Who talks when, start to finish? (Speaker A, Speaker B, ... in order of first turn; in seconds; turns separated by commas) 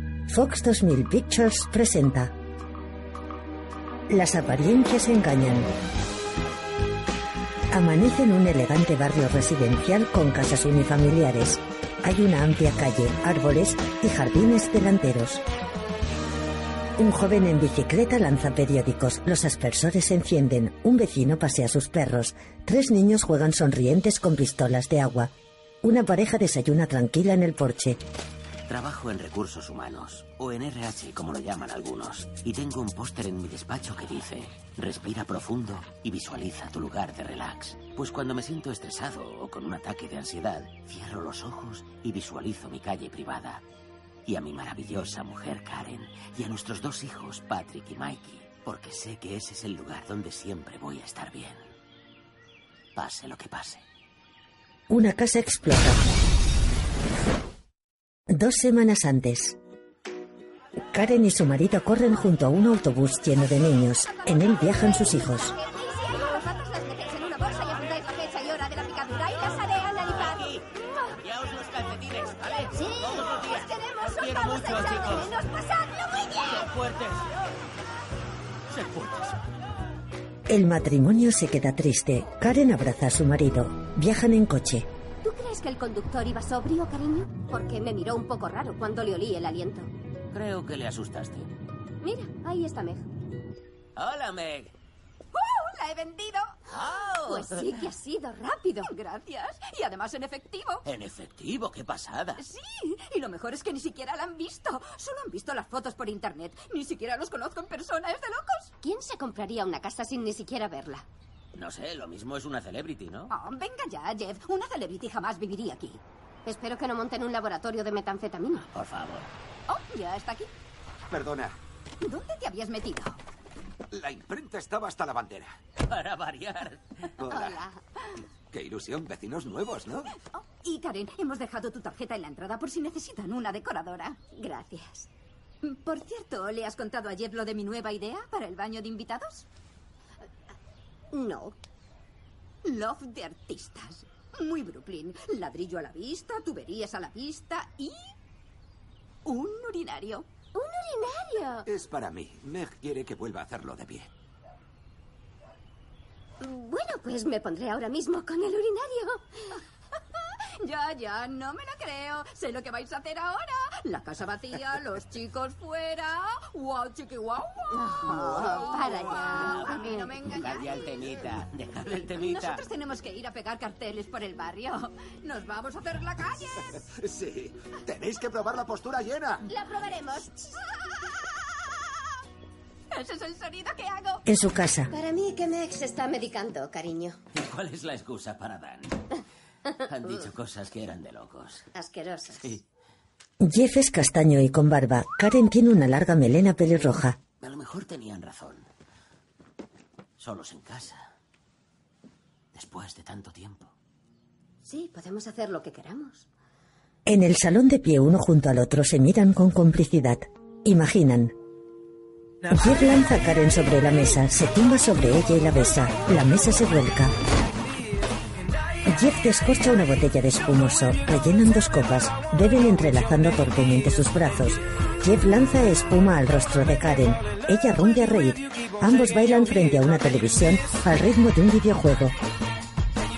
Speaker A: 0.3-2.3, Speaker A: 4.1-5.7, Speaker A: 7.7-15.4, Speaker A: 17.0-28.0, Speaker B: 28.7-43.6, Speaker B: 44.3-51.7, Speaker B: 53.0-53.9, Speaker A: 54.9-56.0, Speaker A: 58.3-59.6, Speaker A: 60.9-65.6, Speaker C: 64.2-70.2, Speaker D: 65.0-66.5, Speaker D: 69.3-70.8, Speaker B: 70.0-75.3, Speaker D: 72.8-76.6, Speaker C: 73.5-74.9, Speaker B: 76.4-77.3, Speaker B: 78.7-79.3, Speaker A: 80.5-84.9, Speaker D: 85.2-89.9, Speaker B: 90.3-91.5, Speaker D: 92.0-93.0, Speaker B: 94.0-94.7, Speaker C: 95.3-96.6, Speaker B: 96.7-97.7, Speaker D: 97.2-98.9, Speaker C: 98.6-100.8, Speaker B: 100.8-102.4, Speaker C: 102.4-108.7, Speaker D: 108.8-111.0, Speaker B: 111.6-113.3, Speaker C: 113.3-116.0, Speaker D: 116.5-118.7, Speaker B: 118.7-119.3, Speaker C: 119.7-120.5, Speaker E: 121.1-121.6, Speaker C: 122.0-123.2, Speaker E: 123.9-125.6, Speaker B: 125.8-127.1, Speaker E: 127.2-127.6, Speaker C: 127.3-127.6, Speaker E: 128.5-130.1, Speaker C: 130.3-134.2, Speaker D: 134.3-135.1, Speaker C: 135.6-139.5, Speaker D: 141.1-141.6, Speaker C: 142.6-148.1, Speaker C: 149.2-150.3, Speaker D: 150.5-151.7, Speaker E: 151.7-154.1, Speaker D: 156.4-159.6, Speaker C: 160.6-171.1, Speaker D: 167.8-170.1, Speaker B: 169.0-172.7, Speaker C: 172.1-176.7, Speaker E: 176.8-179.5, Speaker D: 179.5-180.5, Speaker C: 182.9-184.2, Speaker A: 184.3-184.9, Speaker D: 184.9-187.2, Speaker B: 187.3-189.2, Speaker B: 189.8-191.7, Speaker D: 191.7-192.5, Speaker A: 193.4-197.2, Speaker B: 197.4-198.7, Speaker B: 200.2-201.1, Speaker B: 202.5-203.7, Speaker D: 204.6-206.3, Speaker A: 207.1-211.3, Speaker A: 212.5-217.1, Speaker A: 218.8-232.2